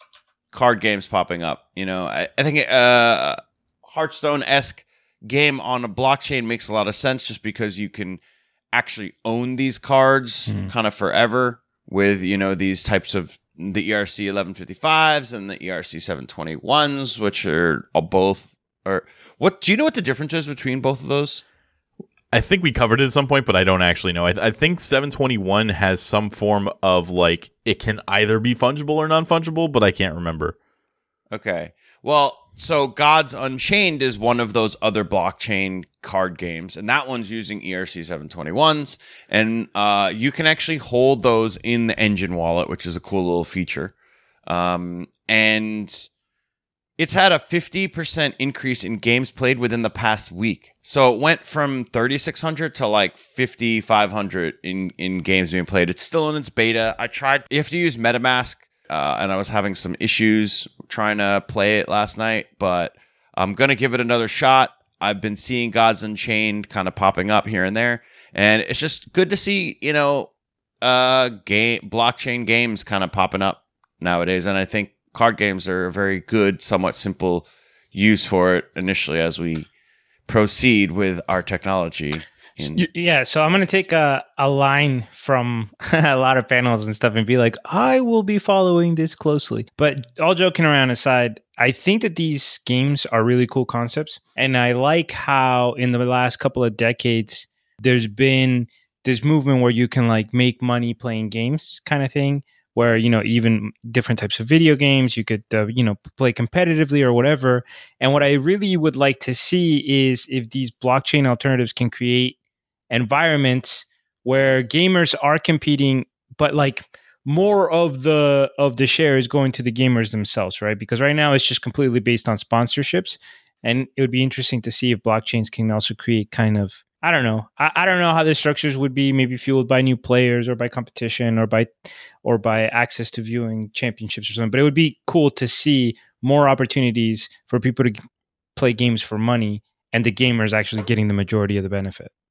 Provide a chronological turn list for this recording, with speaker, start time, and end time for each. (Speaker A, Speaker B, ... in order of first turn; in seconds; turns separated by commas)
Speaker A: 0.5-8.2, Speaker A: 8.7-21.4, Speaker B: 22.3-30.6, Speaker A: 31.3-43.9, Speaker A: 44.5-46.1, Speaker A: 47.0-70.3, Speaker A: 70.8-79.7, Speaker A: 80.3-82.9, Speaker C: 82.7-112.4, Speaker A: 83.6-83.9, Speaker C: 112.9-131.7, Speaker C: 132.2-138.0, Speaker C: 138.6-142.1